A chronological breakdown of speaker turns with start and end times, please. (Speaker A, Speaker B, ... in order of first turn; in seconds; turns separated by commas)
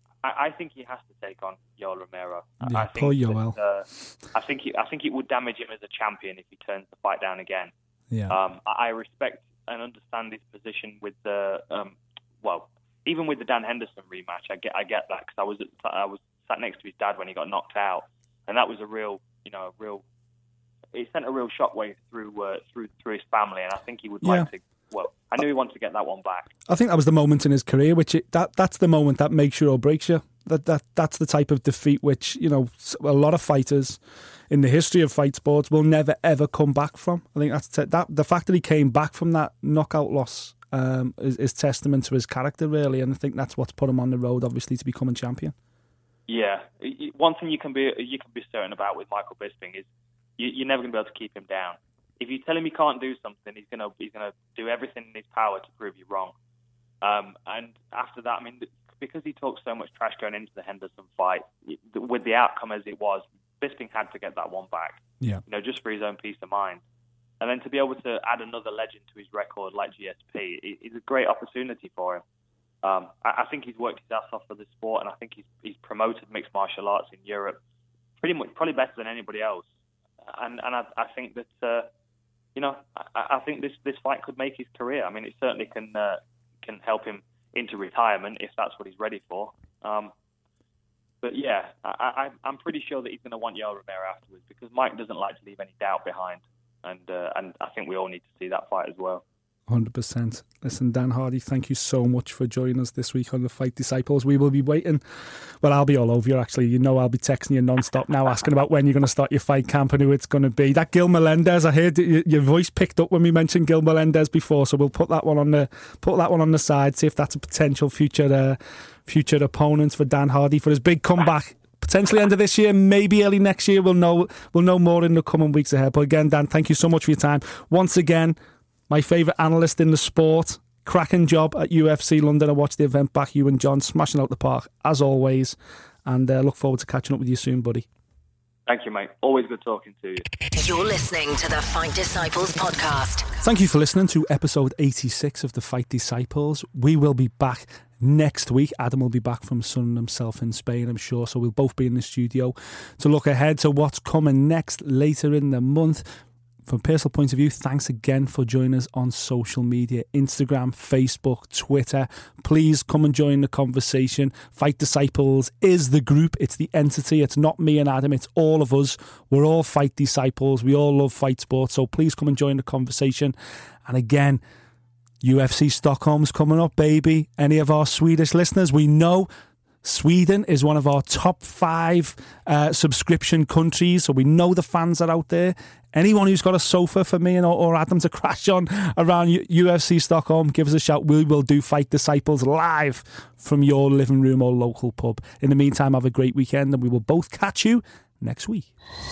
Speaker A: 0.2-7.7, Speaker B: 2.6-3.6, Speaker B: 8.1-8.4, Speaker A: 8.3-20.1, Speaker A: 20.9-26.5, Speaker B: 24.2-24.5, Speaker B: 26.7-45.5, Speaker A: 46.3-49.9, Speaker A: 50.4-56.3, Speaker A: 57.0-66.8, Speaker A: 67.4-72.2, Speaker A: 72.8-77.6, Speaker A: 78.2-79.7, Speaker A: 80.2-81.9, Speaker A: 82.5-90.1, Speaker A: 91.2-99.2, Speaker B: 99.7-128.4, Speaker B: 128.9-137.9, Speaker A: 138.7-140.2, Speaker C: 140.6-143.3, Speaker B: 143.4-156.1, Speaker B: 156.7-173.3, Speaker B: 173.9-174.4, Speaker B: 175.2-179.3, Speaker B: 179.8-198.7